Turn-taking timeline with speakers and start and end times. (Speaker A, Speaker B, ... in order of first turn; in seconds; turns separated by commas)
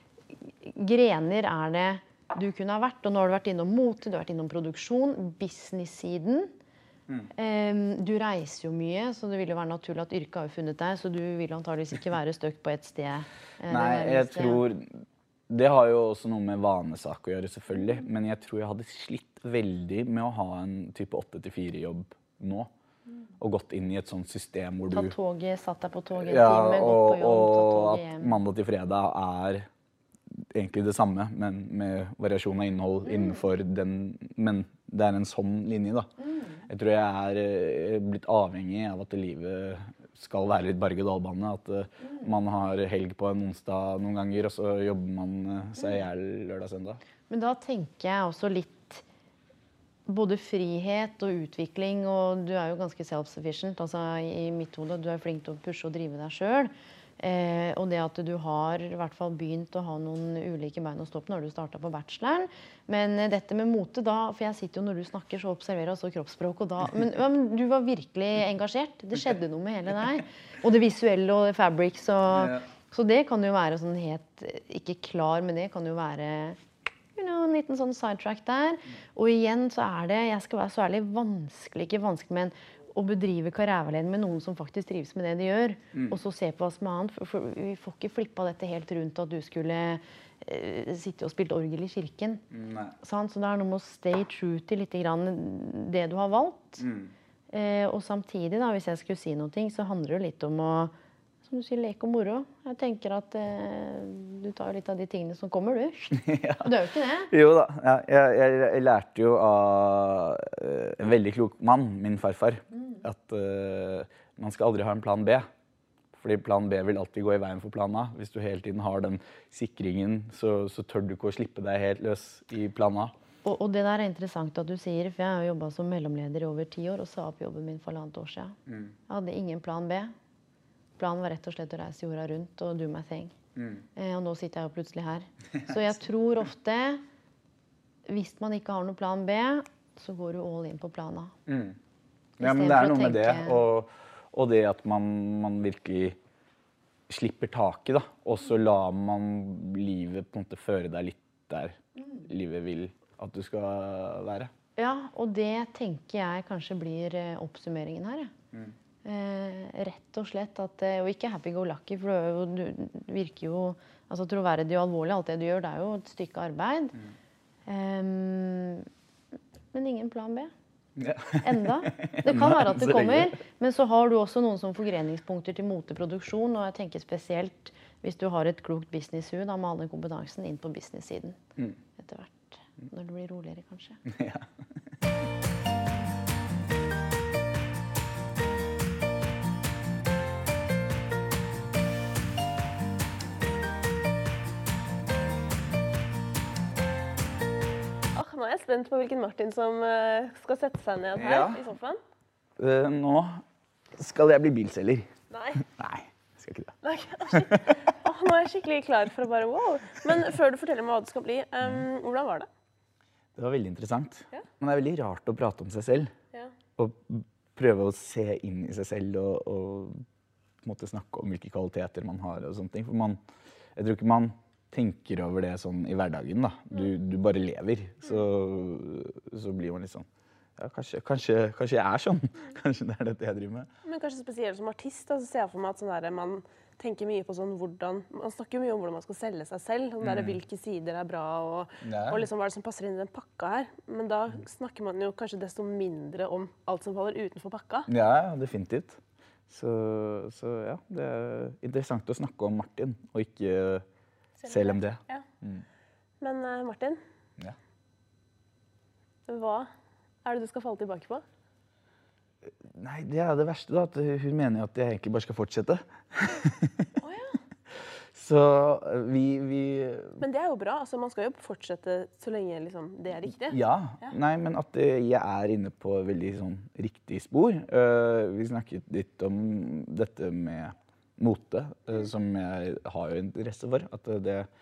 Speaker A: 0.3-6.5, Speaker A: 7.3-14.6, Speaker B: 13.7-22.7, Speaker B: 23.4-25.1, Speaker A: 24.9-28.4, Speaker B: 26.1-29.7, Speaker B: 30.5-36.1, Speaker A: 33.0-33.4, Speaker A: 36.2-36.6, Speaker B: 36.7-47.0, Speaker A: 47.3-49.0, Speaker A: 50.0-76.6, Speaker B: 72.3-72.6, Speaker A: 77.2-92.4, Speaker B: 92.5-92.9, Speaker A: 93.0-96.8, Speaker B: 96.8-97.1, Speaker A: 97.5-107.3, Speaker B: 106.1-106.7, Speaker B: 107.3-115.4, Speaker B: 116.1-123.1, Speaker A: 123.4-128.6, Speaker A: 129.1-130.1, Speaker A: 131.0-133.3, Speaker B: 133.6-133.8, Speaker A: 133.9-137.0, Speaker A: 138.1-141.3, Speaker B: 141.4-141.8, Speaker B: 142.4-146.2, Speaker A: 142.4-143.6, Speaker B: 147.1-154.5, Speaker A: 154.8-158.3, Speaker A: 159.0-167.0, Speaker A: 167.7-168.9, Speaker A: 169.7-170.5, Speaker B: 170.9-173.3, Speaker A: 171.4-181.4, Speaker A: 182.0-184.0, Speaker B: 184.1-184.5, Speaker C: 198.1-202.0, Speaker B: 201.2-201.6, Speaker B: 202.6-203.4, Speaker B: 203.9-206.8, Speaker C: 205.3-205.6, Speaker C: 206.8-212.5, Speaker B: 207.3-207.7, Speaker B: 213.3-216.1, Speaker B: 216.8-220.0, Speaker B: 220.6-223.2, Speaker B: 223.8-233.7, Speaker C: 233.8-247.9, Speaker B: 240.0-240.4, Speaker B: 241.8-242.2, Speaker B: 247.9-253.8, Speaker C: 254.4-255.2, Speaker B: 254.4-255.6, Speaker C: 256.2-257.0, Speaker C: 259.3-259.7, Speaker C: 260.2-261.2, Speaker B: 262.6-266.9, Speaker C: 267.0-267.4, Speaker B: 268.1-270.2, Speaker C: 270.2-273.6, Speaker B: 273.3-284.5